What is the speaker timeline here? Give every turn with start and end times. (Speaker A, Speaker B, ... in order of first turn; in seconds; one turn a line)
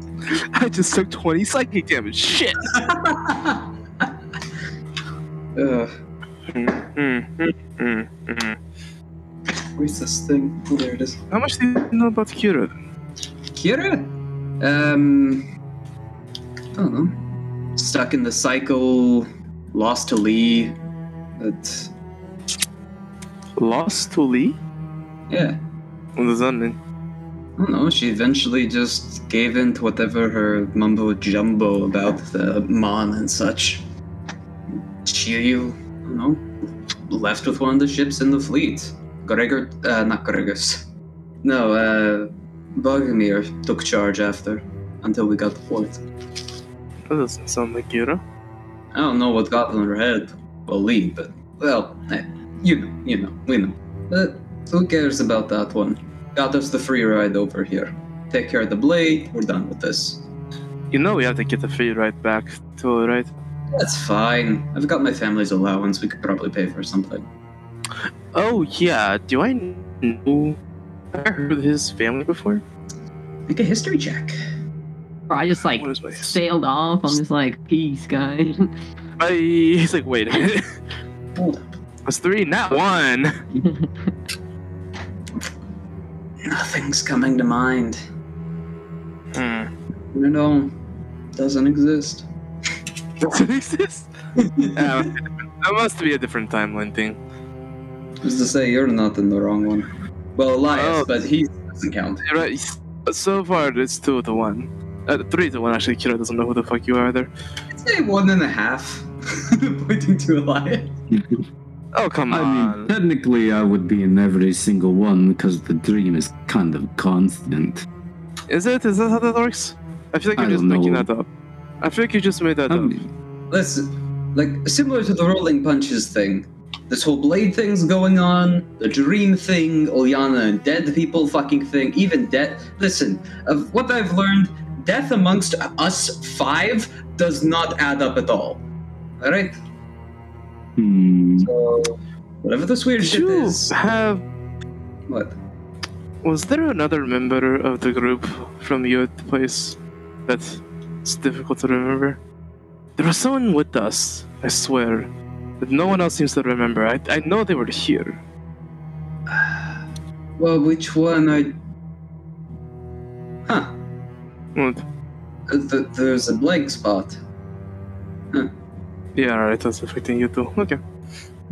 Speaker A: 0.3-2.7
Speaker B: 2.7-4.0
Speaker B: 5.5-5.9
Speaker A: 6.5-8.6
Speaker B: 9.8-11.2
Speaker A: 11.3-12.7
Speaker B: 13.5-15.4
Speaker B: 16.8-17.2
Speaker B: 17.7-20.8
Speaker B: 21.4-21.9
Speaker A: 23.6-24.6
Speaker B: 25.3-25.6
Speaker A: 26.1-26.8
Speaker B: 27.6-33.9
Speaker B: 34.7-36.5
Speaker B: 37.1-40.9
Speaker B: 41.4-46.0
Speaker A: 47.1-48.2
Speaker B: 48.9-60.2
Speaker A: 60.9-63.3
Speaker B: 63.7-67.2
Speaker A: 68.3-70.6
Speaker A: 71.1-72.6
Speaker B: 73.5-74.3
Speaker C: 75.3-78.7
Speaker A: 75.8-76.4
Speaker A: 79.2-80.8
Speaker B: 81.3-81.8
Speaker A: 82.0-83.3
Speaker C: 83.6-83.9
Speaker B: 86.4-88.0
Speaker A: 89.3-89.7
Speaker B: 90.1-90.7
Speaker B: 91.3-92.3
Speaker A: 93.2-94.1
Speaker B: 94.6-95.1
Speaker A: 94.6-97.2
Speaker B: 98.2-102.3
Speaker A: 100.7-101.1
Speaker A: 102.2-107.3
Speaker B: 107.7-110.9
Speaker D: 111.1-111.4
Speaker A: 111.9-112.9
Speaker D: 112.3-117.8
Speaker A: 118.5-121.3
Speaker D: 120.3-121.1
Speaker A: 121.8-123.0
Speaker D: 122.7-123.1
Speaker B: 123.5-138.6
Speaker B: 139.2-139.6
Speaker D: 140.8-141.5
Speaker B: 141.4-143.8
Speaker A: 143.0-144.2
Speaker B: 145.1-145.3
Speaker A: 146.2-152.2
Speaker A: 153.0-158.2
Speaker B: 159.3-159.8
Speaker B: 160.4-161.6
Speaker B: 163.4-163.8
Speaker A: 164.5-164.8
Speaker B: 165.5-167.2
Speaker A: 169.1-170.8